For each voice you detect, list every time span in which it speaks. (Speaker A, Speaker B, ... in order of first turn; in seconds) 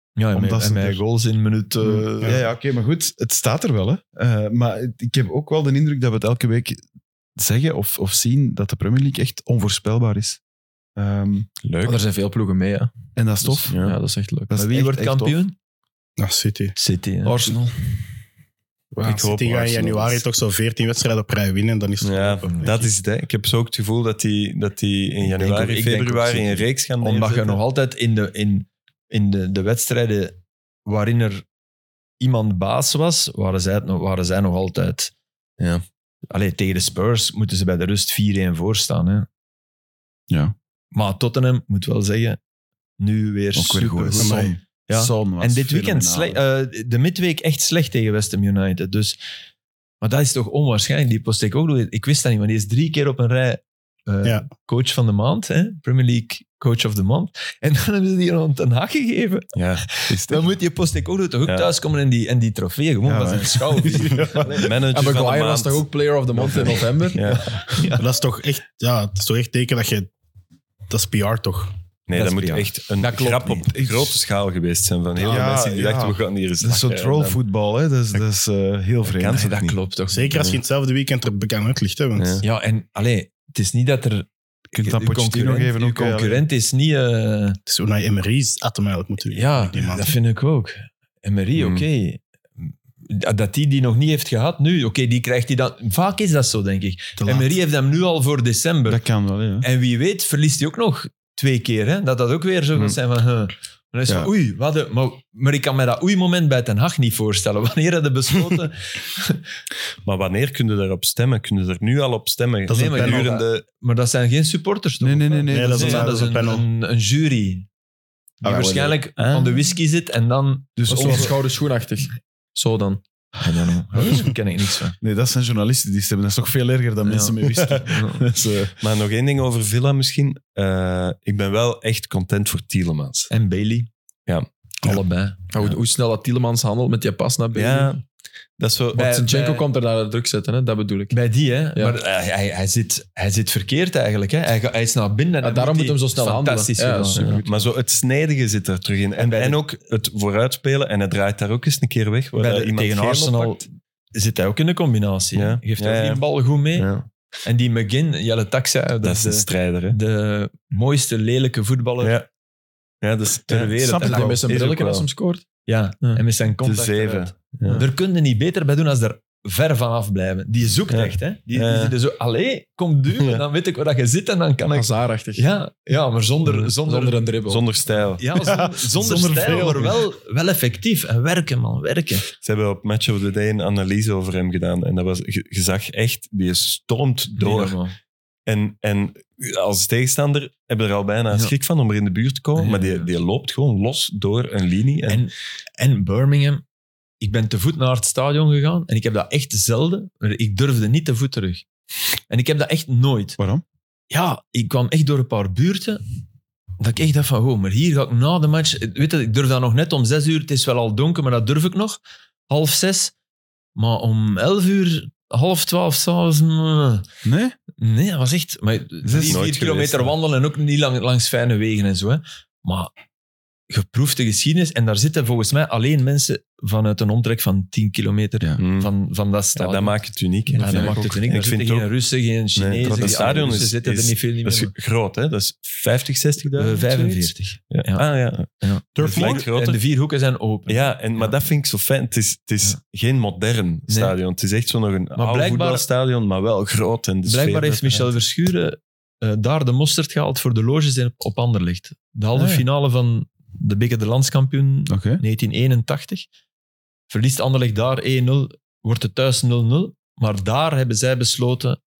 Speaker A: 0.2-2.5, 14.6-15.6, 16.8-17.4, 22.4-22.9, 25.2-31.4, 32.2-35.1, 36.3-39.3, 40.9-42.4, 43.0-49.2, 50.0-64.6, 67.7-68.0, 72.2-73.7, 79.2-80.4, 82.4-84.3, 84.8-87.6, 89.3-99.0, 99.6-109.5, 112.7-117.7, 118.4-121.3, 123.4-125.0, 133.3-133.9, 134.8-135.8, 138.9-139.7, 141.1-147.4, 149.2-149.6, 152.4-156.9, 157.4-162.2, 163.5-164.4, 165.7-177.2, 178.2-182.3, 187.4-187.9, 192.6-193.1, 195.1-196.6, 197.2-201.7, 202.3-203.4, 204.1-206.0, 206.8-213.1, 213.8-217.1, 217.8-222.9, 223.7-230.0, 230.5-234.7, 236.6-241.3, 243.9-244.2, 245.2-245.8, 247.3-256.3, 257.1-261.8
Speaker B: 0.3-1.0, 1.8-6.8, 7.4-10.4, 11.0-11.5, 13.2-13.8, 14.5-15.4, 17.4-17.7, 43.5-46.4, 60.1-60.5, 63.0-64.7, 73.7-74.2, 75.2-79.5, 84.7-86.4, 98.9-99.7, 104.1-104.3, 115.0-116.3, 118.4-119.0, 120.8-121.3, 125.0-128.8, 163.8-164.6, 178.4-180.0, 203.4-203.6, 217.2-217.6, 219.0-219.4, 230.7-231.1, 232.8-233.4, 254.9-255.2
Speaker C: 11.6-12.0, 13.7-14.0, 19.0-20.2, 22.0-27.6, 59.5-59.9, 64.5-67.6, 72.1-77.4, 79.1-79.8, 80.3-80.6, 82.2-82.4, 91.6-91.8, 110.0-113.7, 119.2-119.7, 127.5-128.0, 128.8-133.3, 137.5-138.0, 138.6-139.1, 147.2-153.6, 155.3-156.2, 156.8-157.1, 159.0-160.0, 162.0-162.3, 163.0-163.8, 164.5-165.1, 166.6-167.8, 170.9-171.9, 177.5-178.2, 182.4-187.8, 188.5-195.2, 219.2-220.2, 228.6-228.9, 229.6-231.9, 232.6-239.8, 240.7-248.1, 252.3-252.6
Speaker D: 11.8-12.9, 13.4-14.5, 17.3-17.6, 64.9-67.3, 120.9-123.0, 135.5-138.0, 138.9-141.2, 145.4-147.5, 164.0-165.5, 174.7-175.5, 176.8-177.7
Speaker E: 16.2-16.8, 19.0-22.7, 44.2-44.5, 68.0-70.1, 70.9-71.7, 80.1-82.4, 87.7-90.2, 97.2-97.5, 112.7-113.3, 115.5-116.7, 239.0-239.4